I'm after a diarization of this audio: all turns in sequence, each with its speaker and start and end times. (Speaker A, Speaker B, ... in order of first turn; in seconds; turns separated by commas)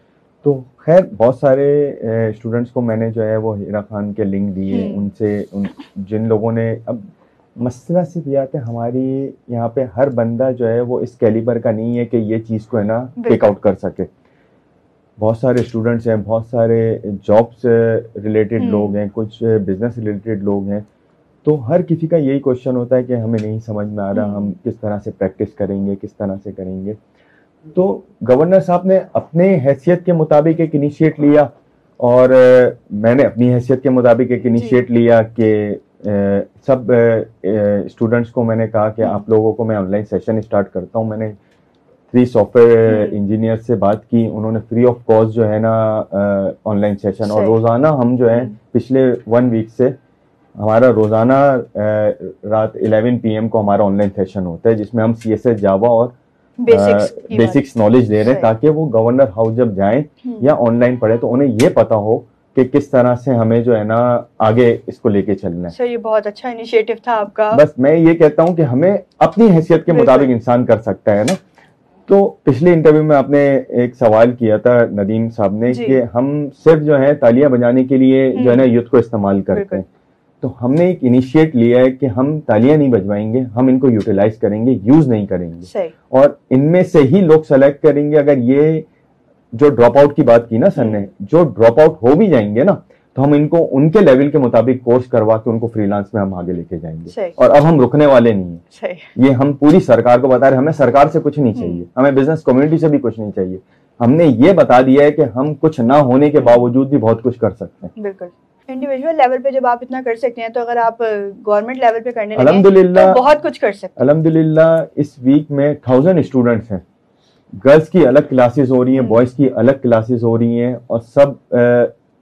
Speaker A: 0.4-14.1, Speaker B: 4.7-5.1, Speaker B: 13.2-13.5, Speaker A: 15.2-20.9, Speaker B: 18.6-19.0, Speaker A: 21.4-27.0, Speaker B: 24.1-24.6, Speaker A: 27.7-31.5, Speaker A: 32.0-41.4, Speaker B: 34.5-34.8, Speaker A: 42.1-50.0, Speaker B: 42.9-43.2, Speaker B: 47.3-47.6, Speaker A: 50.6-56.1, Speaker B: 56.6-57.6, Speaker A: 56.7-65.7, Speaker B: 58.2-58.5, Speaker B: 65.7-67.6, Speaker A: 67.5-71.4, Speaker B: 69.9-70.3, Speaker A: 72.1-79.8, Speaker B: 75.7-76.0, Speaker B: 78.3-78.7, Speaker B: 79.5-79.8, Speaker A: 80.4-88.9, Speaker B: 85.7-85.9, Speaker A: 89.5-98.6, Speaker B: 90.8-91.0, Speaker B: 97.1-97.4, Speaker B: 98.7-99.1, Speaker A: 99.2-107.9, Speaker B: 101.5-101.8, Speaker B: 108.0-114.0, Speaker A: 112.4-113.2, Speaker A: 114.0-116.8, Speaker A: 117.6-121.9, Speaker B: 119.0-119.2